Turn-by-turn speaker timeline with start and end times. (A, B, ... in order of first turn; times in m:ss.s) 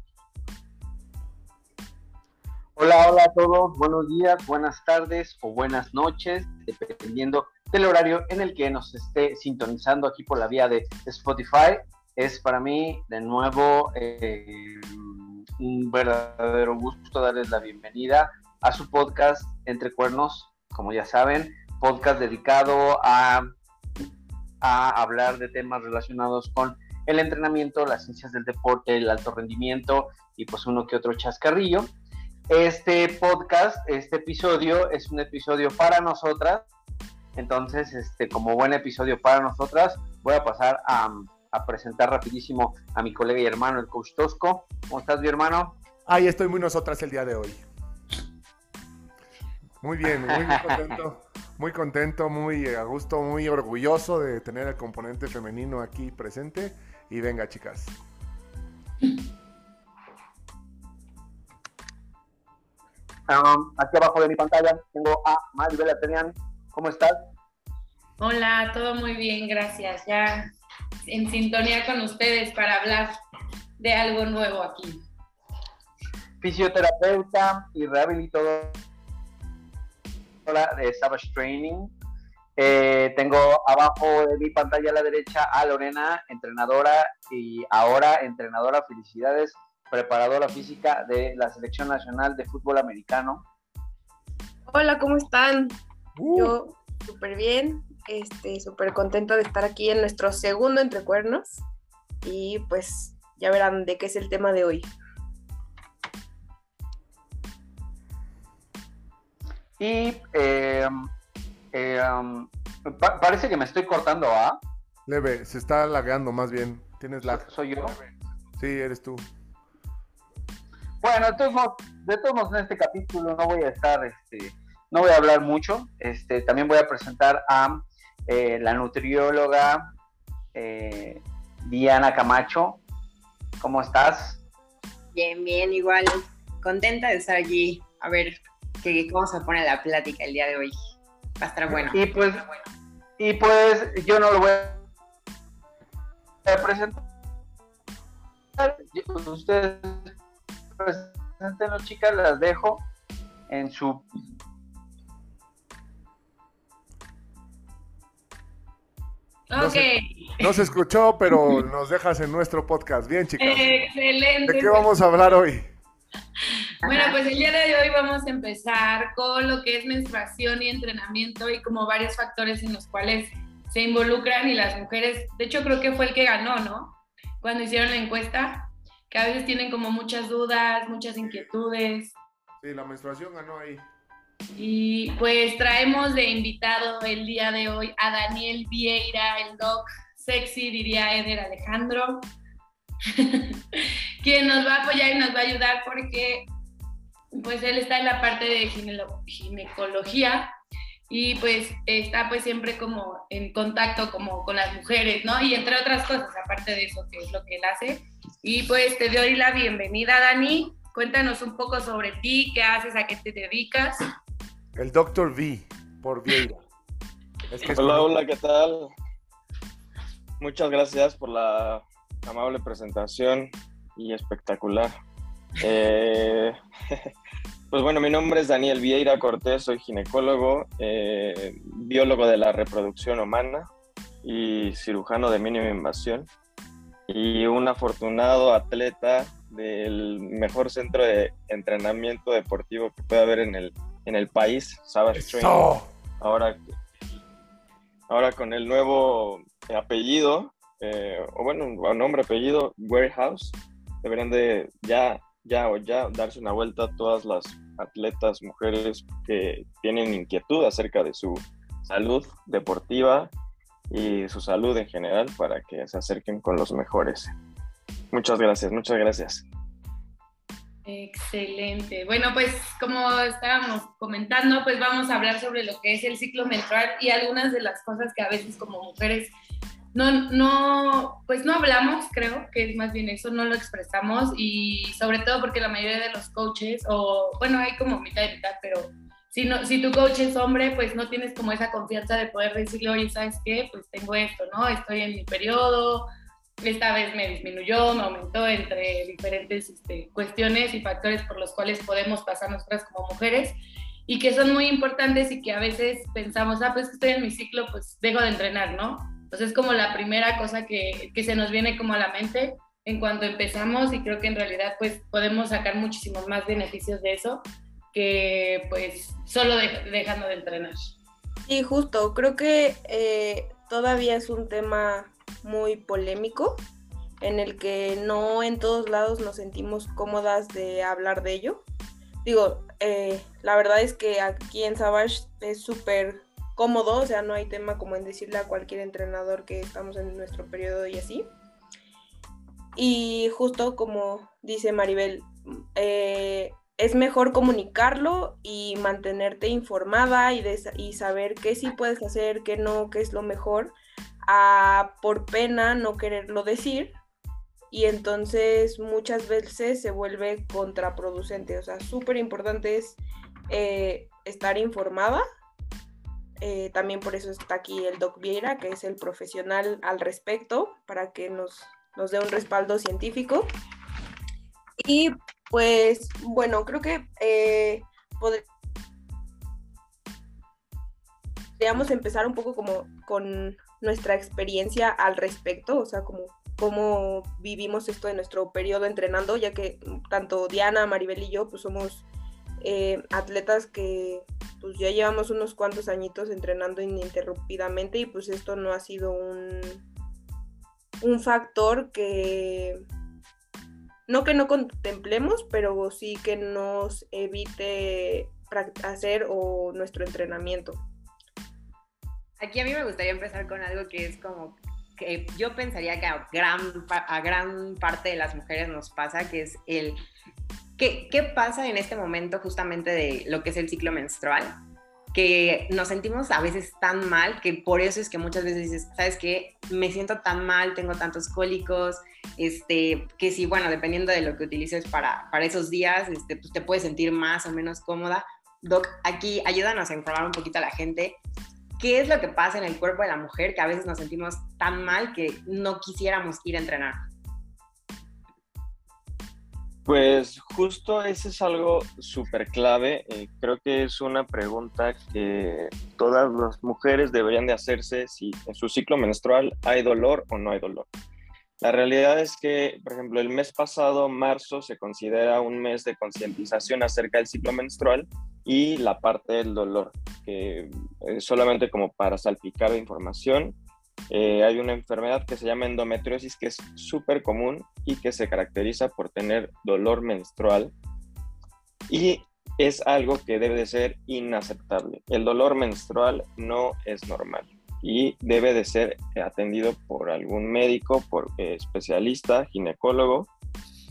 0:02.8-0:23.5 A
0:24.6-0:31.9 A
0:32.5-0:36.7 A
0:37.4-0:45.8 A
0:46.0-0:47.6 B
0:49.8-0:58.0 B
0:50.2-0:50.8 A
1:03.3-1:07.2 A
1:08.2-1:10.4 C
1:11.0-1:13.2 C
1:13.8-1:15.0 C
1:16.4-1:18.8 A
1:20.4-1:21.9 A
1:22.6-1:33.4 A
1:34.7-1:35.7 D
1:36.2-1:36.6 B
1:36.3-1:41.6 D
1:42.2-1:44.9 D
1:49.8-1:51.1 A
1:51.7-1:54.6 A
1:55.1-1:58.0 B
1:57.3-1:58.1 A
1:58.6-1:59.3 B
2:01.0-2:09.8 A
2:10.5-2:12.8 A
2:13.6-2:14.4 A
2:15.1-2:20.9 E
2:21.4-2:22.0 E
2:21.9-2:22.4 A
2:23.2-2:24.8 A
2:26.4-2:27.0 A
2:28.6-2:30.1 A
2:30.8-2:32.9 A
2:33.5-2:34.0 A
2:39.5-2:40.4 C
2:39.5-2:39.9 B
2:40.4-2:43.7 B
2:43.4-2:44.9 C
2:44.4-2:45.7 B
2:46.8-2:47.2 E
2:46.8-3:02.2 C
3:02.6-3:03.8 B
3:04.6-3:12.3 C
3:13.1-3:16.4 C
3:17.3-3:20.5 C
3:21.1-3:34.0 C
3:34.7-3:36.6 B
3:37.5-3:38.1 B
3:37.7-3:38.9 F
3:40.4-3:44.9 F
3:45.6-3:47.1 F
3:47.7-3:53.7 F
3:54.2-3:56.3 F
3:57.1-4:05.6 F
4:05.1-4:05.9 B
4:06.2-4:06.6 F
4:08.1-4:23.3 F
4:23.9-4:27.3 F
4:28.1-4:29.4 F
4:30.8-4:39.3 C
4:39.9-4:56.1 C
4:56.6-5:03.5 C
5:04.1-5:20.9 C
5:21.5-5:26.6 D
5:27.2-5:31.6 D
5:32.2-5:41.3 D
5:42.7-5:53.7 D
5:54.2-5:57.0 D
5:57.7-6:05.2 D
6:06.4-6:13.5 D
6:14.8-6:18.4 D
6:21.6-6:32.0 D
6:32.6-6:39.8 D
6:41.0-6:42.8 D
6:44.1-6:50.8 D
6:52.4-7:00.0 E
7:00.8-7:04.6 E
7:05.1-7:21.2 E
7:21.8-7:27.0 E
7:29.8-7:40.9 F
7:41.6-7:53.6 F
7:54.1-8:00.7 F
8:01.9-8:13.3 F